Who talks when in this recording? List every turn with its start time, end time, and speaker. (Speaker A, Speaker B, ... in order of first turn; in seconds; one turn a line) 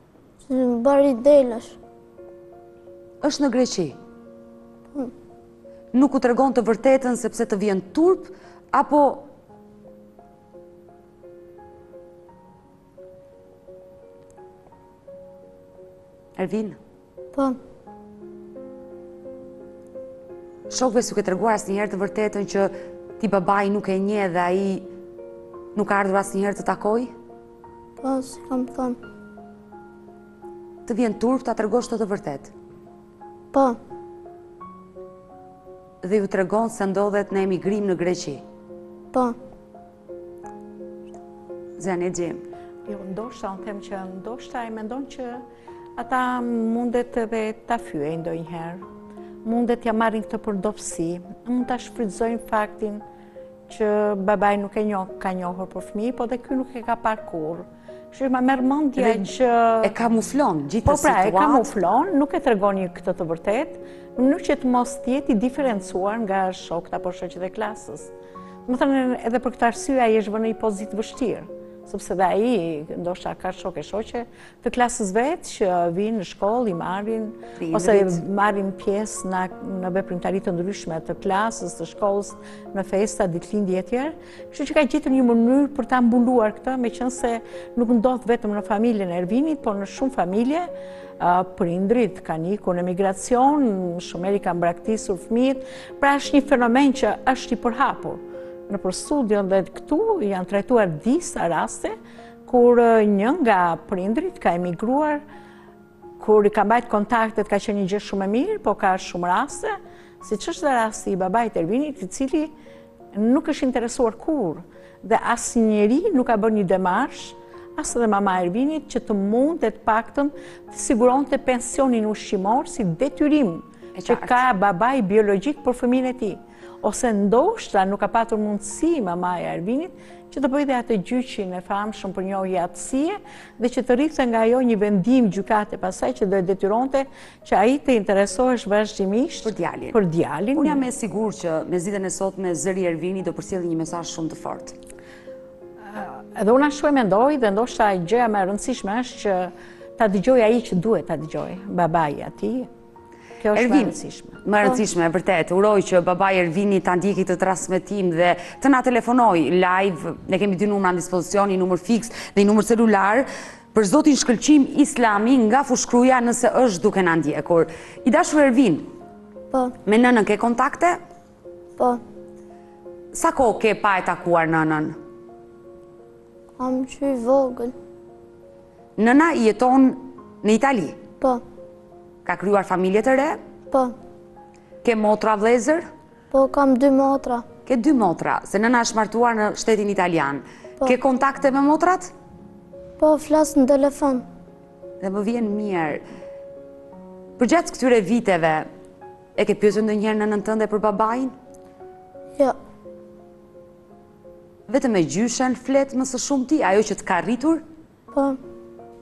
Speaker A: 0.4-1.8
Speaker B: 3.2-4.0
Speaker B: 5.9-9.3
Speaker B: 16.4-16.8
Speaker B: 20.7-24.9
Speaker B: 25.7-27.1
Speaker A: 28.0-29.0
Speaker B: 30.8-32.5
Speaker A: 33.5-33.8
Speaker B: 36.0-38.4
Speaker B: 41.8-42.4
Speaker C: 42.9-45.4
Speaker C: 46.0-48.8
Speaker C: 49.4-53.0
Speaker C: 53.7-59.9
Speaker B: 59.0-59.3
Speaker B: 59.8-61.7
Speaker C: 60.8-68.1
Speaker C: 68.7-101.9
Speaker B: 77.6-78.2
Speaker C: 102.5-105.2
Speaker C: 106.2-112.5
Speaker C: 113.1-140.8
Speaker B: 123.9-124.4
Speaker B: 139.4-140.0
Speaker B: 140.5-144.7
Speaker C: 145.9-152.7
Speaker C: 153.4-154.4
Speaker B: 153.5-168.9
Speaker B: 169.8-171.0
Speaker B: 173.1-175.0
Speaker A: 176.6-177.7
Speaker B: 179.0-181.0
Speaker B: 182.2-183.4
Speaker B: 184.8-185.8
Speaker A: 186.3-187.4
Speaker B: 187.7-192.1
Speaker A: 193.0-194.2
Speaker B: 195.0-196.0
Speaker B: 197.4-198.7
Speaker B: 199.3-201.3
Speaker B: 204.7-207.6
Speaker A: 208.1-208.4